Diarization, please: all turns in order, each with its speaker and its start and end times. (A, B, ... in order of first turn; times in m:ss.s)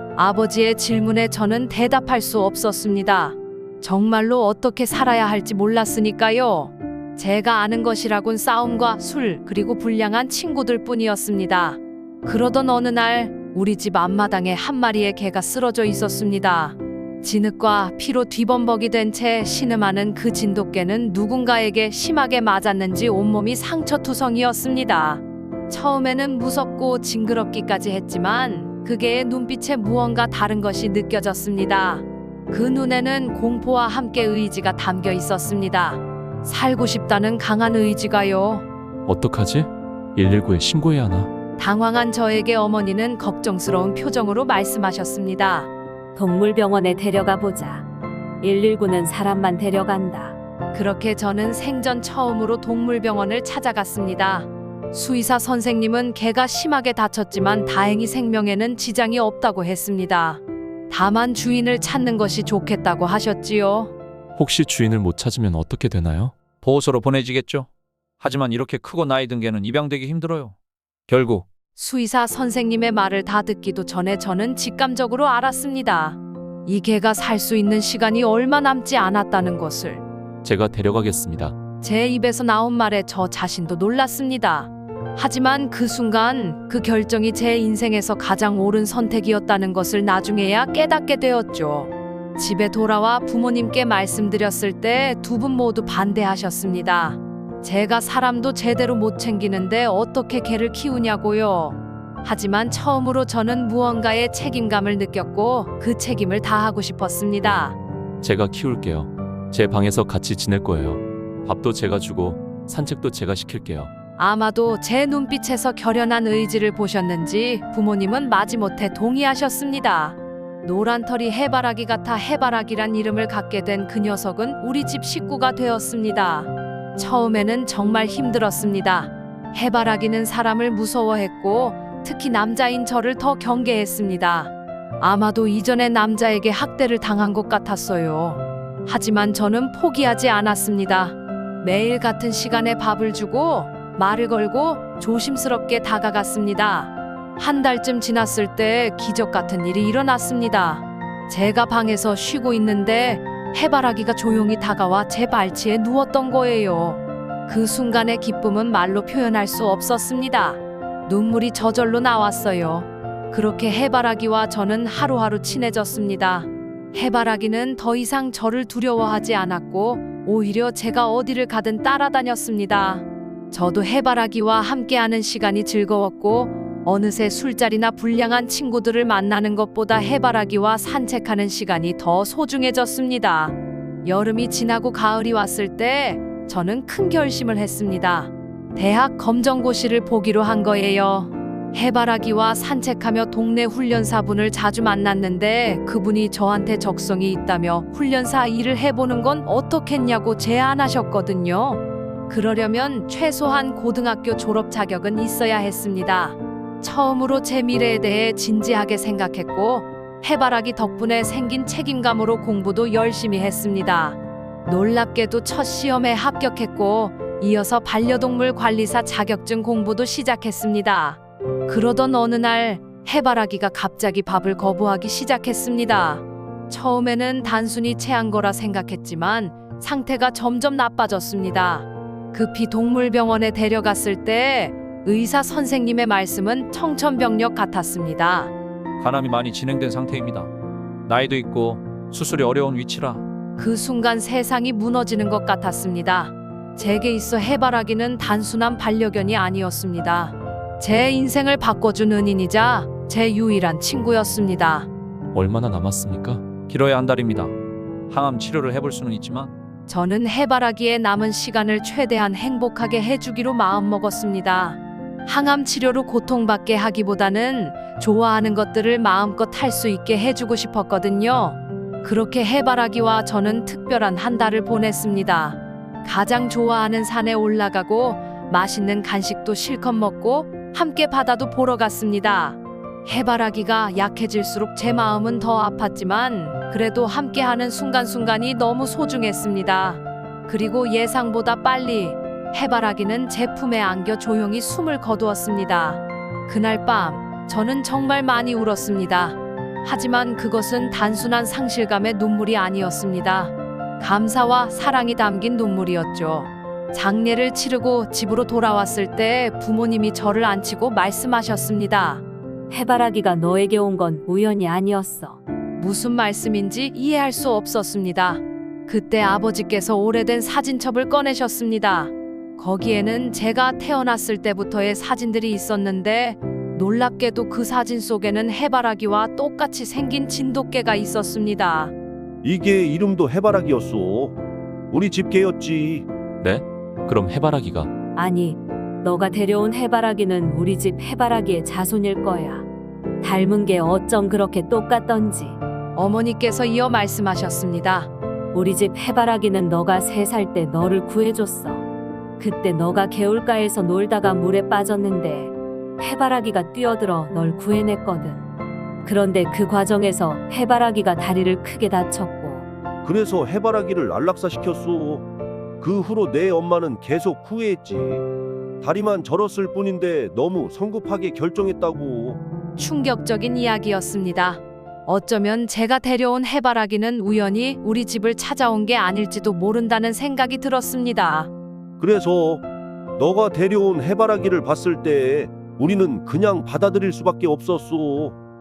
0:00.2-0:38.7 A
0:39.1-0:41.3 B
0:41.6-0:45.7 A
0:46.2-0:47.8 C
0:48.4-0:50.4 C
0:50.7-1:03.9 A
1:04.4-1:06.4 B
1:06.6-1:07.7 D
1:08.2-1:10.6 D
1:11.1-1:11.4 D
1:11.8-1:20.0 A
1:20.4-1:21.6 B
1:21.8-1:47.8 A
1:48.2-1:53.9 B
1:54.2-3:58.5 A
3:59.0-4:00.5 D
4:01.1-4:03.2 D
4:03.6-4:14.9 A
4:15.3-4:16.5 B
4:16.7-4:17.5 D
4:18.1-4:19.5 D
4:19.9-5:12.2 A
5:12.7-5:15.4 C
5:15.8-5:31.9 A
5:32.4-5:34.4 E
5:34.9-5:36.1 E
5:36.4-5:37.9 B
5:38.2-5:42.7 C
5:43.2-5:45.6 C
5:46.0-5:48.1 A
5:48.5-5:51.8 C
5:52.4-5:58.4 C
5:59.0-6:02.7 C
6:03.0-6:05.3 E
6:05.8-6:08.2 E
6:08.8-6:12.4 E
6:12.8-6:21.5 A
6:22.0-6:22.6 E
6:23.2-6:28.4 E